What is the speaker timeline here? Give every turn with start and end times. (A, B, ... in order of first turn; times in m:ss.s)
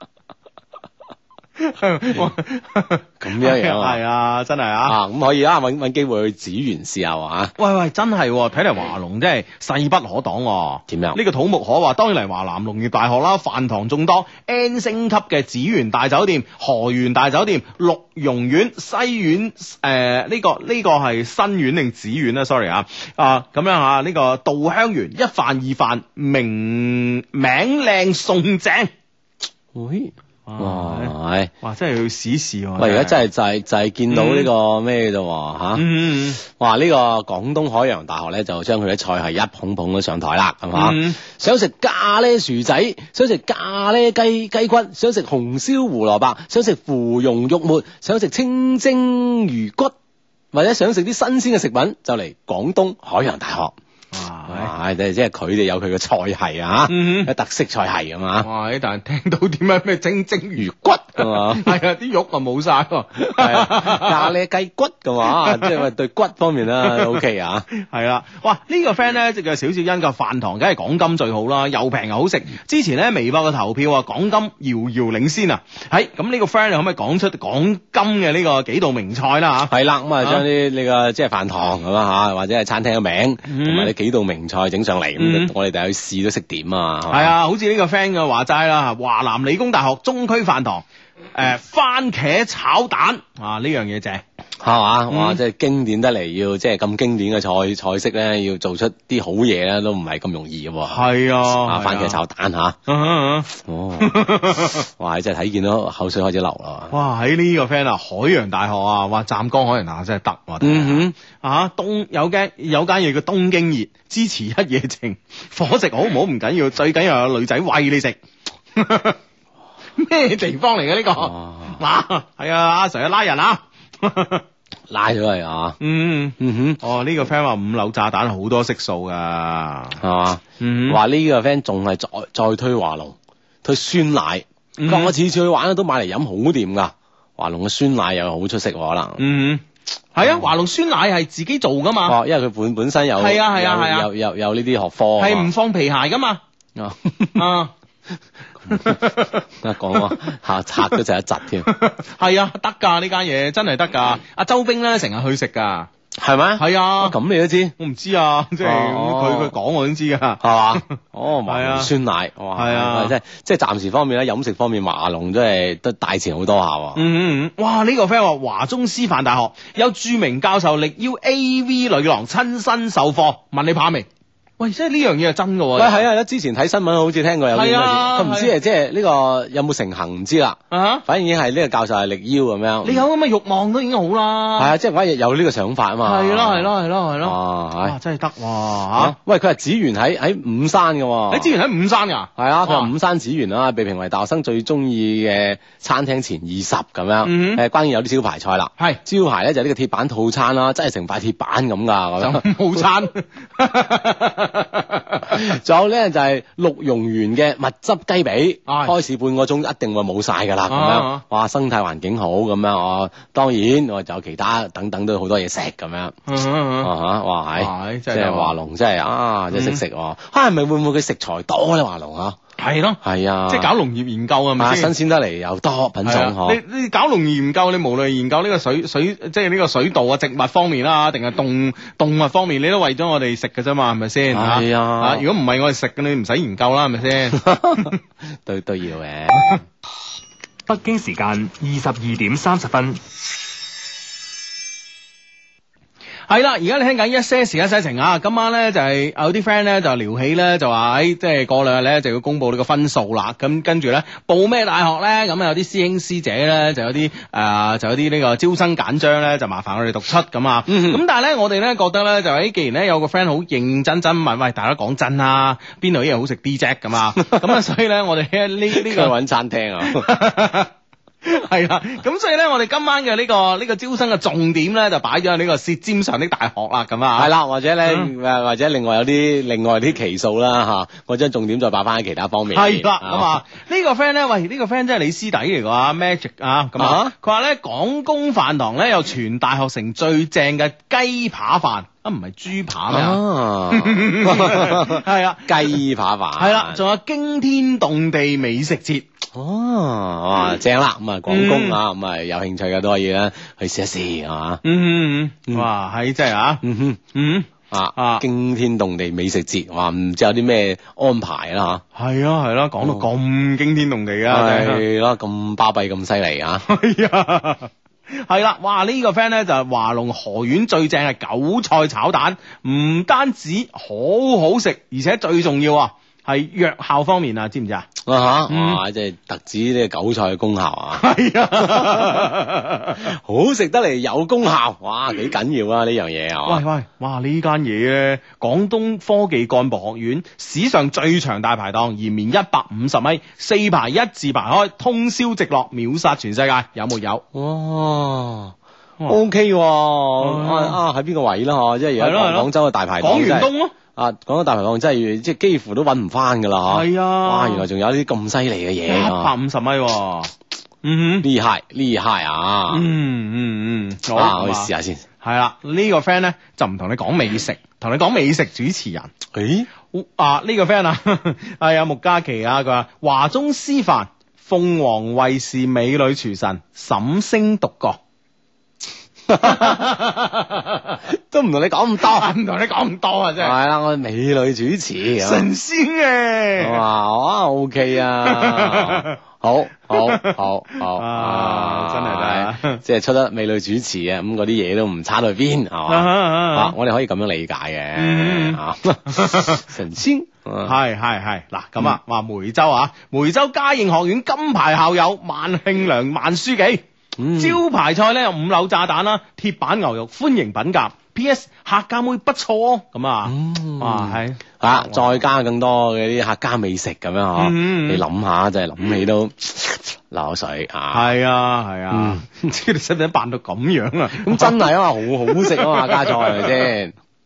0:01.6-0:05.0 A
0:03.2-0:04.0 B
0:04.8-0:07.5 B
0:07.6-0:28.9 A
0:10.9-0:11.2 B
0:29.7-0:31.5 B
0:30.4-0:33.2 A
0:32.8-0:35.8 B
0:34.1-0:34.5 A
0:35.8-0:36.4 A
0:36.4-0:49.9 B
0:40.7-0:41.2 A
0:50.5-0:53.7 B
0:54.1-0:54.7 A
0:54.5-0:58.5 B
0:56.9-0:57.3 A
0:58.4-1:04.3 A
1:00.6-1:01.8 B
1:03.4-1:07.7 B
1:05.3-1:05.8 A
1:06.8-1:07.2 A
1:07.7-1:20.4 A
1:19.7-1:27.3 B
1:23.5-1:23.9 A
1:25.2-1:25.5 A
1:27.1-1:34.2 A
1:34.6-1:42.8 B
1:35.1-1:35.4 A
1:40.9-1:42.2 A
1:42.9-1:44.8 A
1:43.6-1:46.9 B
1:46.9-1:58.2 A
1:50.6-1:51.1 B
1:58.8-1:59.2 A
2:00.0-2:04.4 A
2:01.2-2:01.8 B
2:04.9-2:05.8 B
2:05.8-2:10.0 A
2:06.4-2:06.8 B
2:10.0-2:19.2 B
2:10.6-2:11.0 A
2:14.8-2:15.1 A
2:19.2-2:19.6 A
2:20.1-2:22.2 A
2:20.2-2:20.5 B
2:22.0-2:25.5 B
2:23.2-2:24.1 A
2:25.2-2:26.4 A
2:26.8-2:27.4 B
2:27.3-2:27.7 A
2:28.7-2:29.0 B
2:28.7-2:30.1 A
2:29.6-2:31.7 B
2:31.6-2:35.9 A
2:36.2-2:37.7 B
2:36.6-2:37.2 A
2:37.8-2:41.9 A
2:38.6-2:39.5 B
2:40.4-2:47.0 B
2:42.5-2:43.1 A
2:46.9-2:54.1 A
2:54.6-2:56.0 A
2:55.8-3:03.0 B
2:57.5-2:58.5 A
3:00.7-3:01.0 A
3:02.8-3:04.7 A
3:04.6-3:08.0 B
3:06.0-3:09.2 A
3:09.0-3:11.5 B
3:11.3-3:12.9 A
3:12.4-3:22.8 B
3:17.2-3:17.6 A
3:22.2-3:25.4 A
3:25.3-3:36.1 B
3:28.7-3:28.9 A
3:30.7-3:31.2 A
3:36.3-3:36.9 A
3:36.8-3:42.4 B
3:37.6-3:38.5 A
3:39.5-3:39.8 A
3:42.6-3:44.9 A
3:43.0-3:43.7 B
3:44.6-3:46.6 B
3:46.0-3:58.0 A
3:54.3-3:55.2 B
3:57.4-3:57.9 B
3:58.4-3:59.6 B
4:00.7-4:03.0 C
4:06.3-4:29.1 A
4:20.7-4:21.0 B
4:27.2-4:27.5 B
4:28.7-4:30.0 B
4:29.8-4:30.7 A
4:31.2-4:37.3 A
4:37.2-4:43.3 B
4:42.5-4:55.8 A
4:46.8-4:47.1 B
4:52.9-4:56.8 B
4:56.4-4:59.0 A
4:59.3-5:04.6 B
5:01.3-5:01.8 A
5:04.6-5:08.2 A
5:06.6-5:07.0 B
5:07.7-5:11.8 B
5:11.9-5:14.8 A
5:12.8-5:13.0 B
5:14.3-5:16.6 B
5:16.7-5:27.9 A
5:28.0-5:32.3 B
5:28.5-5:28.8 A
5:31.0-5:33.0 A
5:33.0-5:36.6 B
5:36.4-5:47.2 A
5:47.3-5:48.5 B
5:49.1-5:59.3 B
5:50.2-5:50.8 A
5:52.0-5:53.7 A
5:56.7-5:57.6 A
5:58.9-6:00.3 A
6:00.8-6:01.3 A
6:01.2-6:02.9 B
6:02.7-6:04.7 A
6:04.1-6:05.0 B
6:05.2-6:09.1 A
6:09.3-6:09.7 B
6:09.9-6:18.0 A
6:19.3-6:19.8 B
6:19.4-6:21.0 A
6:21.1-6:22.3 B
6:22.0-6:23.5 A
6:23.4-6:25.5 B
6:25.2-6:26.8 A
6:26.6-6:40.8 B
6:28.2-6:29.2 A
6:29.9-6:32.8 A
6:35.9-6:36.7 A
6:38.0-6:39.6 A
6:40.6-6:46.8 A
6:47.2-6:47.6 B
6:47.4-6:55.2 A
6:53.2-7:01.1 B
6:57.4-6:58.0 A
7:00.9-7:06.7 A
7:01.9-7:02.4 B
7:04.2-7:06.9 B